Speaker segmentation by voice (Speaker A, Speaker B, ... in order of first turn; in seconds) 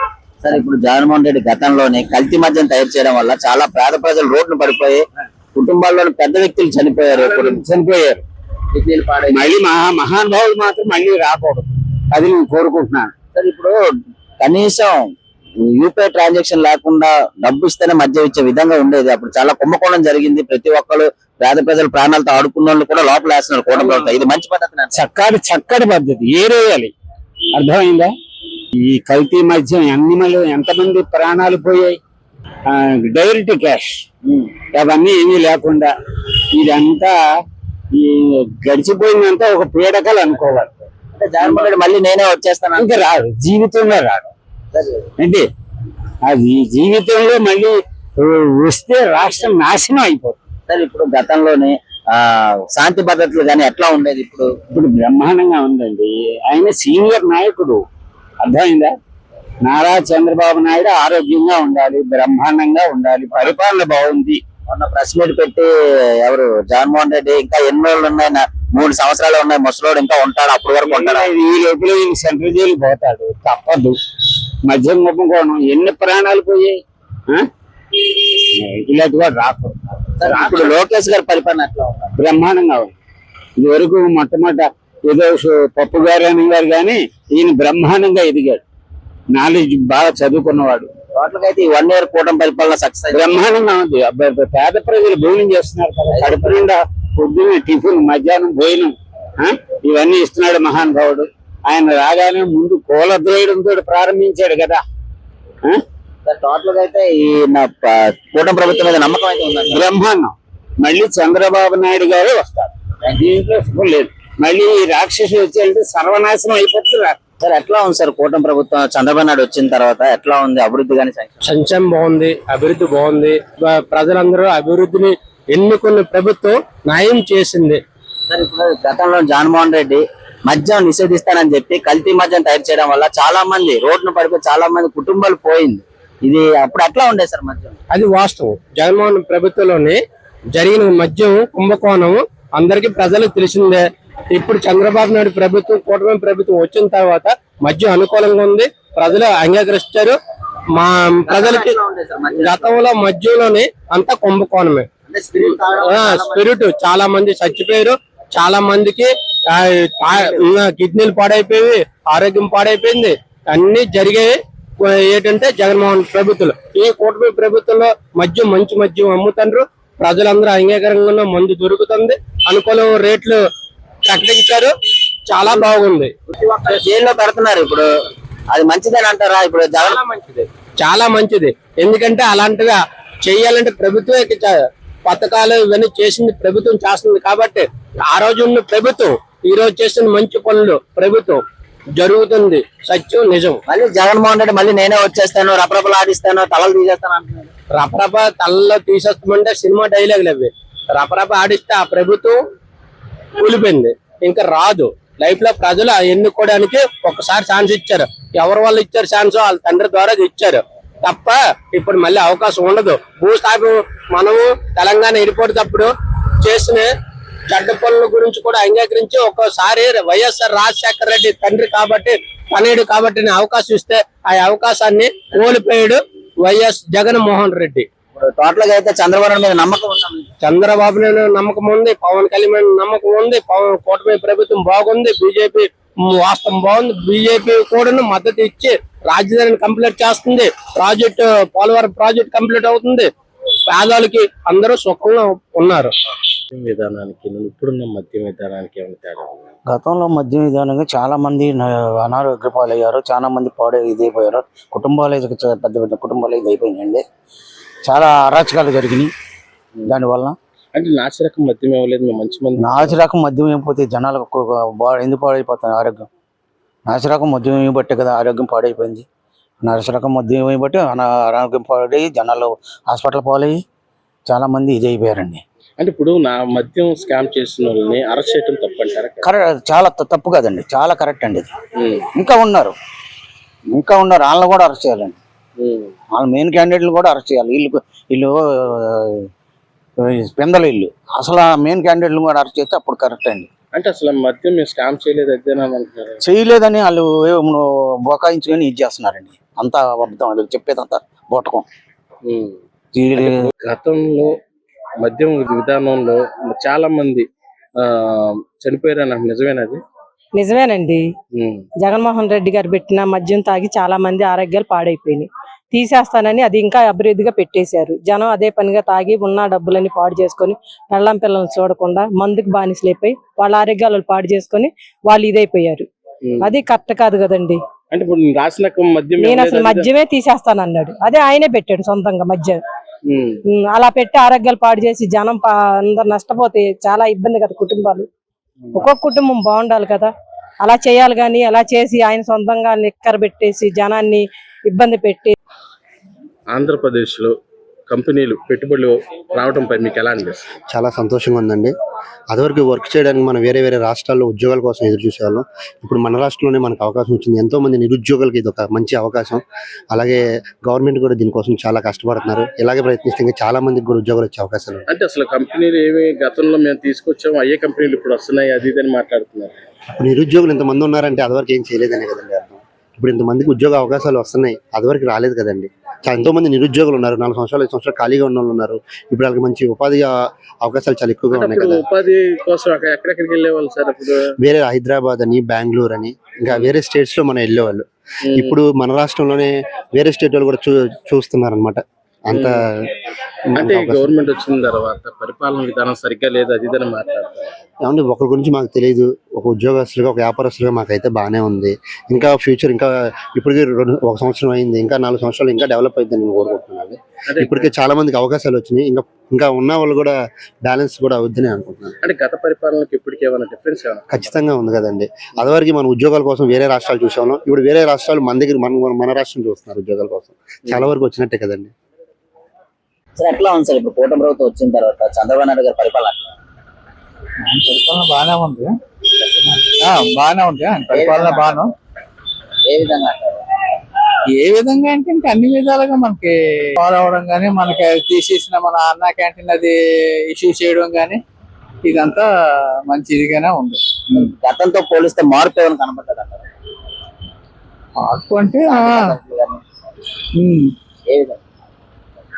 Speaker A: 0.4-5.0, 5.5-7.6, 8.7-9.4, 13.3-13.7, 14.4-15.1, 15.7-25.0, 34.2-34.5, 41.1-43.0, 44.7-45.1, 50.7-54.5, 64.7-65.7, 66.2-71.3, 80.2-82.1, 91.2-93.4, 96.1-96.6, 106.2-109.8, 117.4-121.4, 128.3-137.8, 151.3-152.8, 155.1-156.5, 176.4-177.8, 178.5-180.0, 193.7-197.5, 228.2-230.3, 423.2-426.3, 430.9-431.6, 432.6-433.4, 444.1-446.4, 448.7-449.6, 451.1-451.4
Speaker B: 7.1-8.2, 9.3-13.1, 24.9-26.9, 27.6-28.1, 28.8-32.0, 32.7-34.0, 34.7-35.9, 36.5-37.1, 37.9-40.8, 42.8-44.3, 45.2-45.4, 46.2-50.4, 54.7-57.8, 58.4-58.9, 59.6-64.4, 70.8-73.9, 74.7-77.4, 78.6-80.8, 82.2-82.9, 83.6-88.6, 89.3-90.9, 93.1-104.8, 109.7-117.2
Speaker C: 121.4-127.8, 137.9-140.0, 140.5-150.2, 150.8-151.8, 152.4-154.8, 155.4-173.4, 174.0-174.7, 175.3-176.1, 179.8-184.5, 185.1-191.4, 192.0-193.6, 197.7-202.4, 203.4-215.9, 216.4-216.9, 217.5-227.8, 230.4-243.1, 243.7-245.9
Speaker D: 246.5-249.5, 260.7-263.0, 275.8-279.2, 281.8-282.1, 285.6-285.9, 293.7-296.2, 302.2-302.6, 303.1-304.3, 305.0-307.2, 307.8-309.8, 311.4-311.6, 326.2-326.5, 327.9-329.9, 333.1-333.4, 346.5-347.3, 347.9-350.4, 364.9-369.6, 381.3-384.2, 388.2-388.6, 392.3-392.6, 393.6-397.5, 407.3-407.7, 412.0-414.3
Speaker E: 249.7-257.0, 257.8-259.1, 259.9-260.4, 262.6-266.1, 266.9-269.0, 269.6-273.6, 274.3-275.4, 279.2-281.5, 282.1-282.7, 283.7-285.2, 286.1-289.3, 290.0-293.5, 296.2-301.6, 302.9-303.5
Speaker F: 310.4-311.1, 311.8-325.9, 326.4-327.6, 329.2-332.6, 333.5-338.1, 338.7-340.1, 340.6-345.4
Speaker G: 350.7-351.7, 352.3-364.9, 369.9-380.1, 380.6-381.8, 384.4-392.6, 393.5-394.1, 397.8-411.9, 414.1-421.7
Speaker H: 427.4-428.7, 429.9-431.7, 434.4-439.7, 440.3-441.2, 441.8-442.2, 442.9-444.3, 448.0-449.1, 450.4-450.7